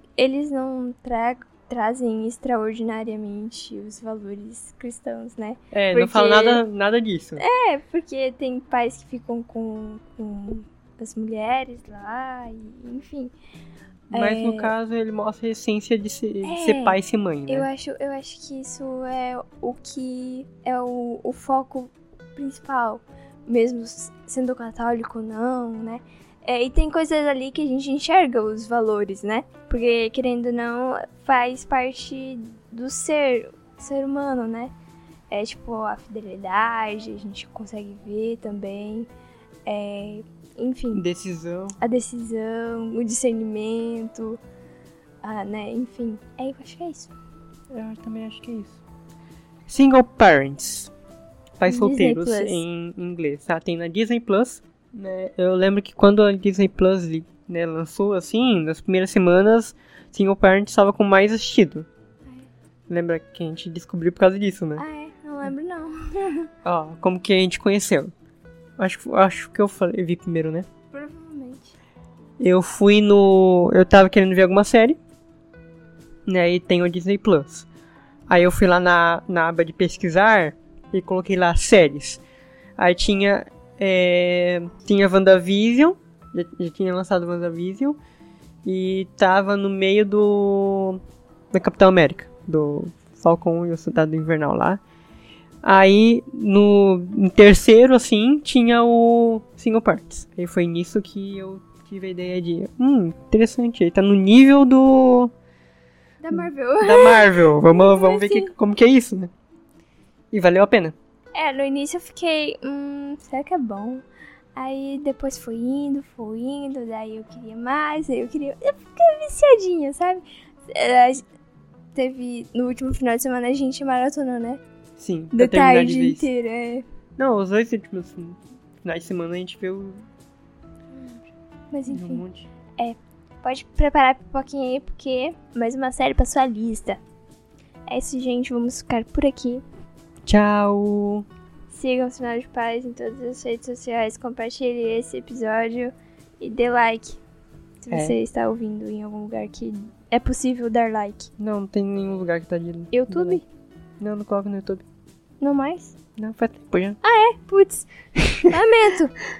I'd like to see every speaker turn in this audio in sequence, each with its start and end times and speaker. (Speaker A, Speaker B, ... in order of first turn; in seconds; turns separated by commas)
Speaker A: 0.2-6.6, Speaker B: 5.7-7.4, Speaker A: 7.4-13.3, Speaker A: 14.1-14.7, Speaker B: 14.1-17.7, Speaker A: 16.4-34.7, Speaker A: 35.3-39.1, Speaker A: 39.7-41.0, Speaker B: 40.9-41.8, Speaker A: 41.8-44.4, Speaker A: 45.2-47.1, Speaker B: 47.7-48.8, Speaker B: 49.7-50.9, Speaker B: 51.6-61.9, Speaker A: 51.7-52.6, Speaker B: 62.9-64.8, Speaker A: 64.8-66.5, Speaker B: 66.7-68.1, Speaker B: 68.8-70.7, Speaker A: 70.9-71.7, Speaker B: 72.4-75.0, Speaker B: 76.3-77.7, Speaker B: 78.3-82.2, Speaker B: 82.8-88.0, Speaker B: 88.6-91.0, Speaker B: 91.5-94.8, Speaker B: 95.6-105.3, Speaker A: 106.2-108.5, Speaker B: 106.3-109.3, Speaker B: 110.3-111.0, Speaker A: 111.3-114.0, Speaker A: 114.6-121.2, Speaker A: 122.0-124.6, Speaker B: 125.0-126.3, Speaker A: 125.3-126.8, Speaker B: 127.2-130.0, Speaker A: 130.9-132.2, Speaker B: 131.9-132.5, Speaker A: 132.8-137.0, Speaker A: 137.9-139.6, Speaker B: 140.3-141.2, Speaker A: 141.7-147.2, Speaker A: 147.8-151.3, Speaker B: 151.4-153.4, Speaker A: 152.9-153.4, Speaker B: 154.0-154.8, Speaker A: 155.4-156.0, Speaker B: 156.2-157.0, Speaker A: 157.0-157.9, Speaker A: 158.4-159.2